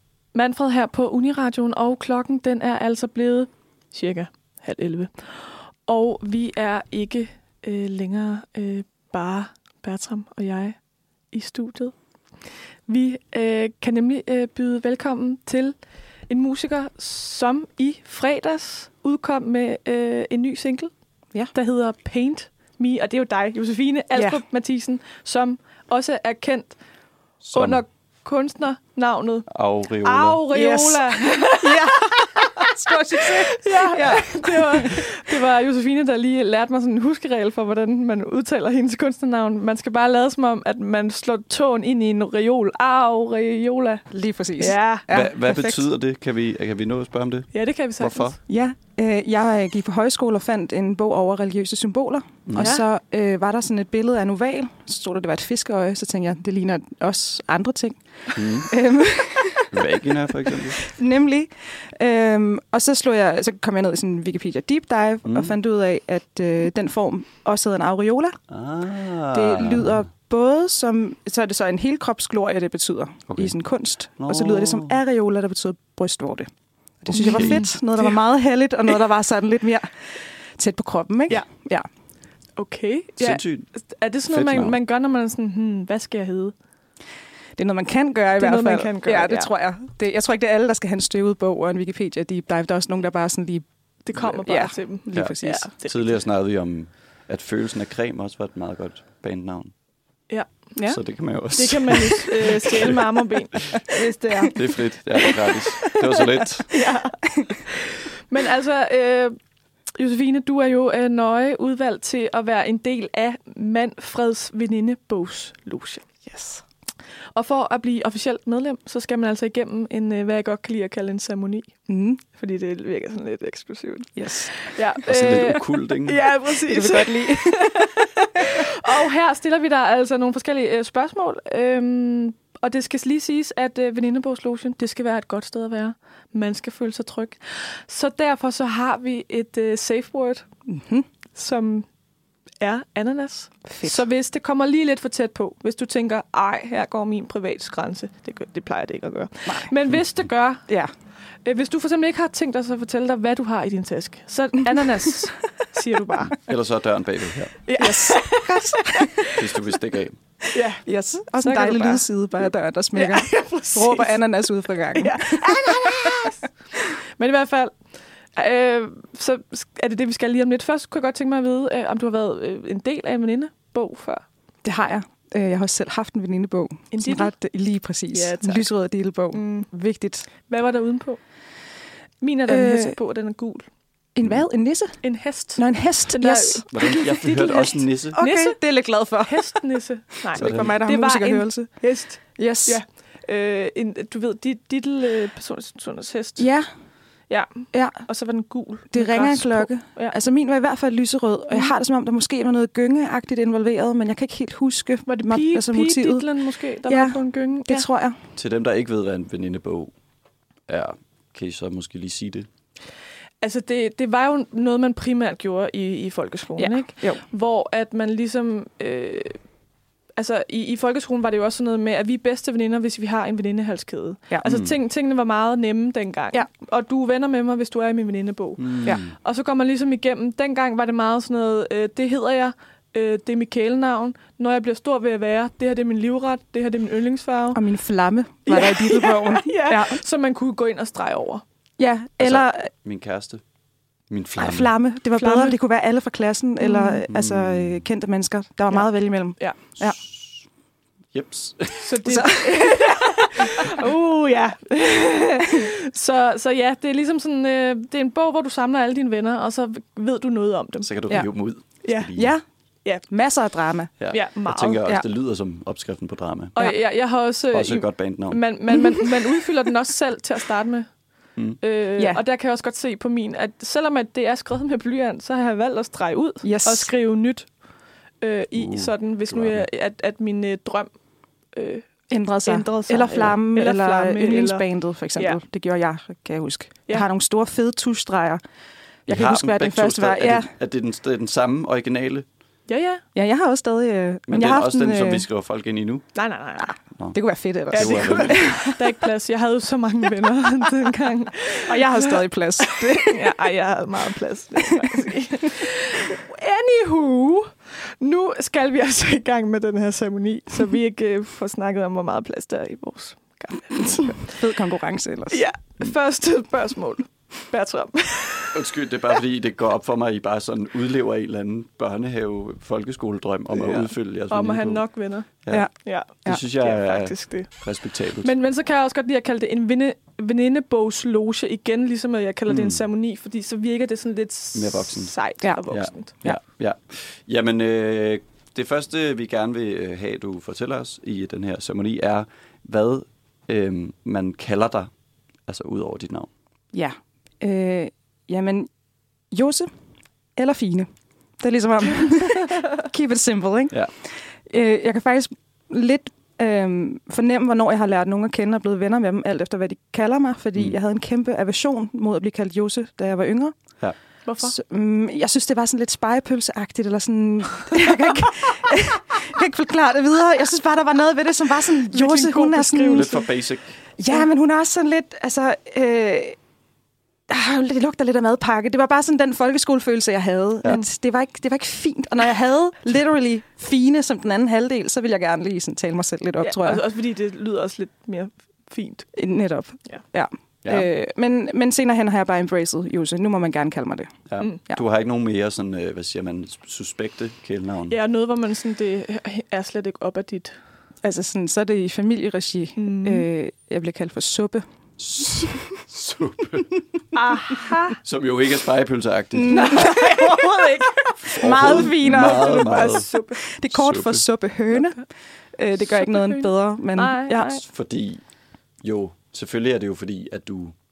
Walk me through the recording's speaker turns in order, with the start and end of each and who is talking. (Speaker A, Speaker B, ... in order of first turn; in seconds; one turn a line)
Speaker A: 0.3-10.8
Speaker A: 11.3-11.9
Speaker A: 12.9-15.8
Speaker A: 16.3-20.9
Speaker A: 21.5-26.8
Speaker B: 24.1-24.4
Speaker C: 27.4-27.8
Speaker A: 27.5-29.5
Speaker C: 29.5-30.4
Speaker A: 30.0-44.1
Speaker B: 30.5-35.1
Speaker B: 44.1-45.8
Speaker A: 44.6-45.1
Speaker C: 45.1-48.4
Speaker A: 47.5-48.4
Speaker B: 48.5-59.9
Speaker C: 52.5-52.8
Speaker A: 52.6-52.8
Speaker C: 58.4-58.7
Speaker C: 59.7-60.9
Speaker B: 60.5-68.4
Speaker C: 65.2-65.5
Speaker C: 68.5-70.0
Speaker B: 69.3-76.5
Speaker C: 74.2-75.0
Speaker B: 77.0-81.9
Speaker C: 77.1-77.7
Speaker A: 77.2-78.1
Speaker A: 82.6-86.5
Speaker C: 83.2-83.7
Speaker C: 84.3-84.8
Speaker B: 87.5-93.7
Speaker A: 88.4-89.5
Speaker A: 94.0-96.2
Speaker B: 94.2-95.7
Speaker C: 95.1-99.7
Speaker A: 100.3-100.6
Speaker C: 100.9-103.1
Speaker A: 101.5-104.6
Speaker B: 103.8-104.5
Speaker C: 104.5-106.7
Speaker A: 105.1-109.3
Speaker B: 107.2-107.5
Speaker A: 109.9-116.1
Speaker B: 116.2-116.6
Speaker A: 117.3-121.7
Speaker B: 121.9-122.2
Speaker A: 122.3-140.4
Speaker B: 124.2-124.5
Speaker C: 125.0-126.2
Speaker B: 126.7-128.6
Speaker B: 140.7-141.1
Speaker A: 141.3-141.9
Speaker A: 142.6-150.6
Speaker B: 143.7-144.0
Speaker A: 151.4-156.4
Speaker C: 156.3-157.6
Speaker A: 157.6-159.4
Speaker B: 157.8-159.3
Speaker C: 159.3-160.2
Speaker A: 160.5-160.8
Speaker B: 160.8-166.3
Speaker A: 161.4-162.1
Speaker A: 162.9-164.2
Speaker A: 164.9-166.4
Speaker A: 167.1-167.7
Speaker A: 168.3-174.2
Speaker B: 174.6-180.3
Speaker A: 176.9-177.3
Speaker A: 178.1-178.7
Speaker A: 179.3-179.7
Speaker A: 180.5-181.2
Speaker A: 182.2-183.7
Speaker B: 182.5-182.9
Speaker B: 184.1-186.6
Speaker A: 185.0-188.6
Speaker C: 186.7-188.2
Speaker B: 188.1-189.7
Speaker A: 189.2-196.5
Speaker B: 190.3-192.8
Speaker C: 190.3-190.8
Speaker B: 196.4-196.7
Speaker A: 197.3-200.2
Speaker B: 197.7-198.0
Speaker B: 198.9-206.3
Speaker A: 205.1-207.8
Speaker B: 206.8-208.2
Speaker C: 208.3-209.9
Speaker C: 210.7-212.5
Speaker A: 213.4-219.4
Speaker B: 216.6-217.2
Speaker A: 220.2-237.6
Speaker C: 224.4-224.7
Speaker C: 228.6-229.1
Speaker B: 237.5-240.0
Speaker A: 238.4-241.4
Speaker B: 241.8-242.7
Speaker C: 242.2-243.4
Speaker C: 244.1-244.8
Speaker B: 244.4-250.0
Speaker A: 245.1-245.6
Speaker A: 246.6-247.0
Speaker C: 247.1-247.8
Speaker C: 249.8-250.3
Speaker C: 251.1-252.0
Speaker A: 251.8-260.9
Speaker B: 252.1-252.9
Speaker C: 260.8-262.3
Speaker A: 261.8-262.1
Speaker B: 262.1-262.4
Speaker B: 263.1-263.9
Speaker C: 264.0-266.6
Speaker A: 264.1-264.8
Speaker A: 266.6-270.9
Speaker C: 267.5-268.4
Speaker A: 271.6-277.5
Speaker B: 272.0-272.2
Speaker B: 276.4-276.9
Speaker A: 278.2-280.9
Speaker C: 278.6-279.6
Speaker A: 281.5-284.6
Speaker B: 282.1-288.4
Speaker B: 289.1-290.5
Speaker C: 289.1-292.2
Speaker A: 292.7-293.0
Speaker B: 293.1-295.2
Speaker C: 294.3-296.1
Speaker A: 296.1-296.8
Speaker C: 296.9-298.5
Speaker B: 297.1-298.8
Speaker A: 297.7-314.4
Speaker B: 301.6-303.3
Speaker B: 304.8-305.1
Speaker B: 313.8-315.4
Speaker A: 315.3-318.6
Speaker C: 318.5-324.9
Speaker A: 323.6-327.6
Speaker C: 325.4-328.3
Speaker A: 328.2-336.1
Speaker C: 332.5-332.8
Speaker C: 334.5-335.2
Speaker C: 335.7-344.9
Speaker C: 345.5-346.3
Speaker B: 346.7-348.7
Speaker B: 349.3-349.7
Speaker B: 350.4-350.9
Speaker B: 351.4-363.6
Speaker A: 364.2-364.6
Speaker B: 364.4-373.2
Speaker A: 371.9-373.3
Speaker C: 372.9-373.8
Speaker B: 374.0-376.4
Speaker B: 377.3-386.8
Speaker A: 386.4-389.1
Speaker B: 389.1-394.8
Speaker C: 394.3-398.0
Speaker A: 397.9-400.6
Speaker B: 401.0-404.6
Speaker A: 402.8-403.2
Speaker C: 405.0-406.8
Speaker B: 405.4-405.6
Speaker A: 407.1-408.0
Speaker C: 408.0-409.9
Speaker B: 409.3-417.6
Speaker A: 409.5-413.4
Speaker C: 411.2-413.1
Speaker C: 413.7-414.2
Speaker A: 415.9-417.6
Speaker C: 417.6-418.2
Speaker C: 418.8-420.7